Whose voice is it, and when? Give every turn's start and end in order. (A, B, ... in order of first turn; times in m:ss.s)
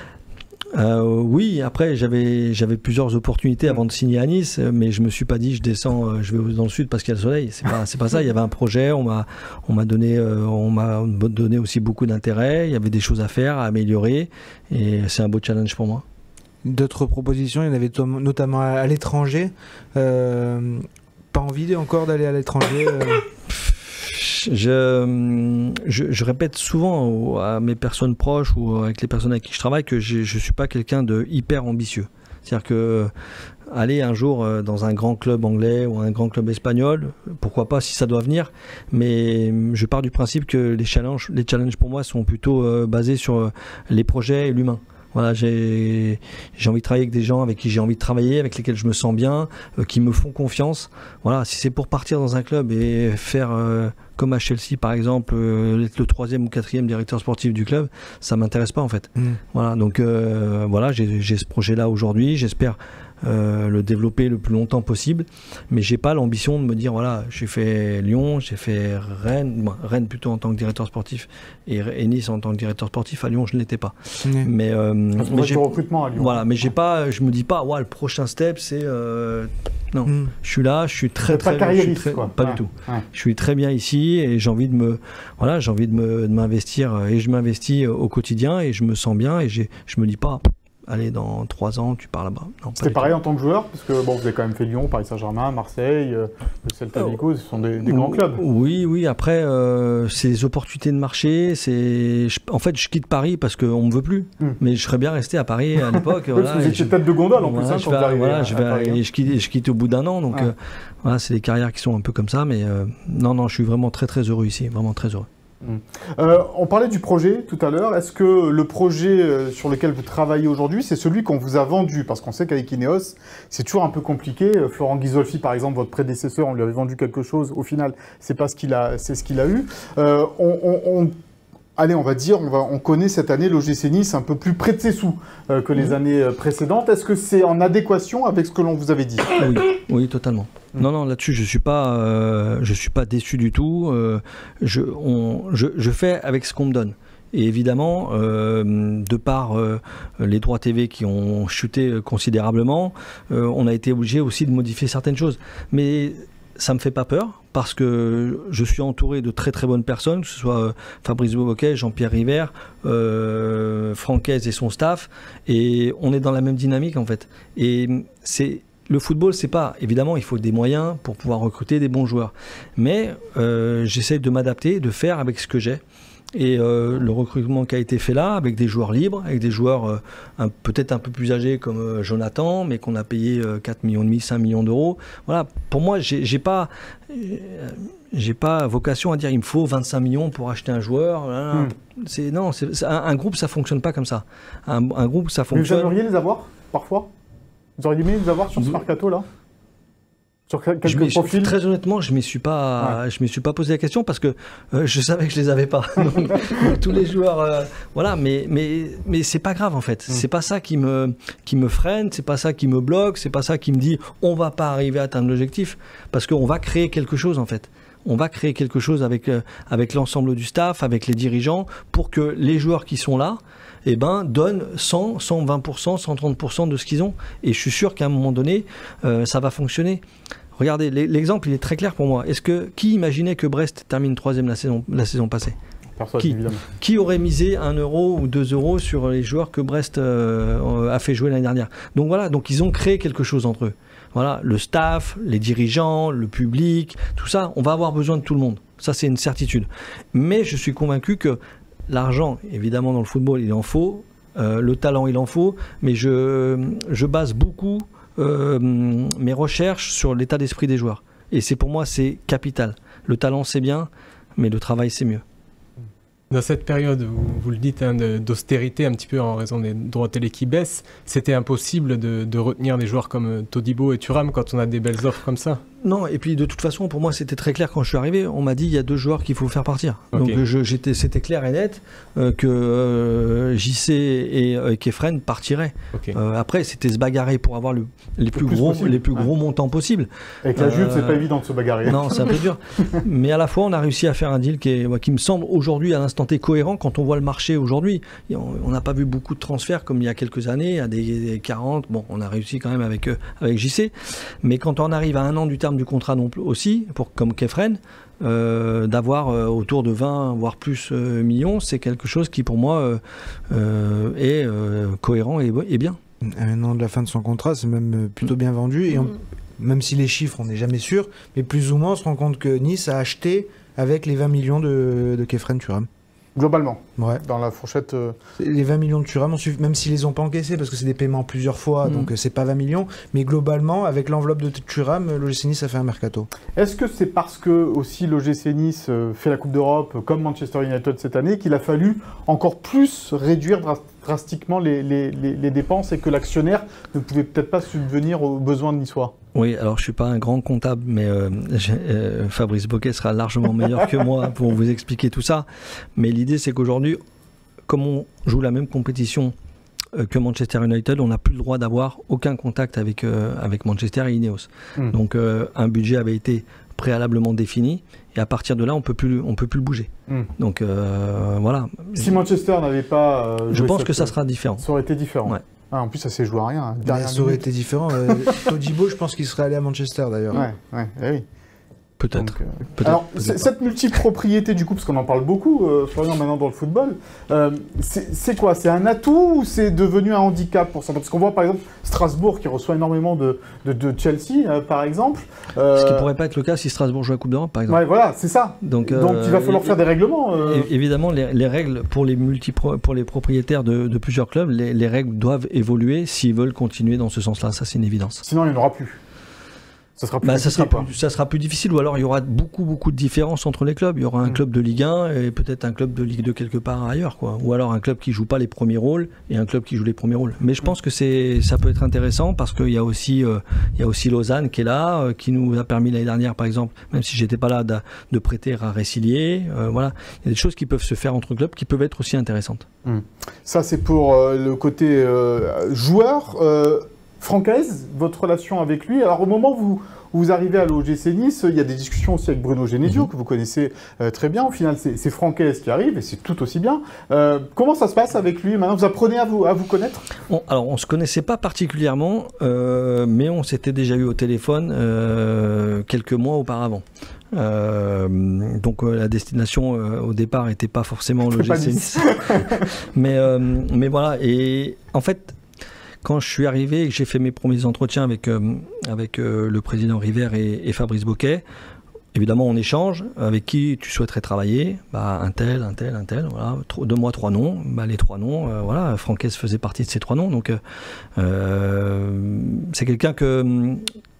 0:00.7-0:16.0 A
0:16.6-0:23.2 B
0:23.5-0:33.1 A
0:33.7-1:33.1 A
1:14.2-1:14.5 B
1:15.2-1:16.6 C
1:20.0-1:20.3 B
1:21.3-1:23.0 C
1:32.8-1:38.4 C
1:37.8-1:55.3 A
1:45.9-1:49.0 C
1:55.6-2:11.1 C
2:11.8-2:19.6 C
2:19.3-2:55.8 A
2:56.3-3:15.9 A
3:15.5-3:17.1 C
3:17.8-3:19.2 C
3:20.5-3:21.5 C
3:20.8-3:50.0 A
3:26.2-3:26.7 C
3:50.6-3:55.6 A
3:56.0-3:56.6 C
3:56.2-4:25.2 A
4:26.3-4:35.6 D
4:35.8-4:51.2 A
4:40.1-4:40.4 D
4:48.4-4:49.3 C
4:50.4-4:52.4 C
4:51.8-5:16.0 A
5:16.2-5:25.9 B
5:26.4-5:28.2 C
5:27.0-5:27.2 B
5:28.4-5:36.3 B
5:36.6-5:49.1 C
5:49.3-5:57.0 A
5:57.7-5:59.3 A
5:59.9-6:12.2 A
6:12.0-6:17.4 C
6:13.5-6:14.6 A
6:16.8-6:20.5 B
6:18.0-6:18.3 C
6:20.3-6:21.2 C
6:22.0-6:23.5 A
6:22.1-6:36.1 C
6:35.7-6:37.8 A
6:37.7-6:40.7 C
6:38.6-6:39.8 A
6:40.4-6:48.2 A
6:48.2-6:49.0 C
6:50.0-6:50.8 C
6:50.2-7:12.6 A
7:12.8-7:30.1 C
7:30.3-7:45.4 A
7:41.2-7:42.7 C
7:46.0-7:51.4 A
7:52.1-8:00.6 A
8:01.2-8:03.8 A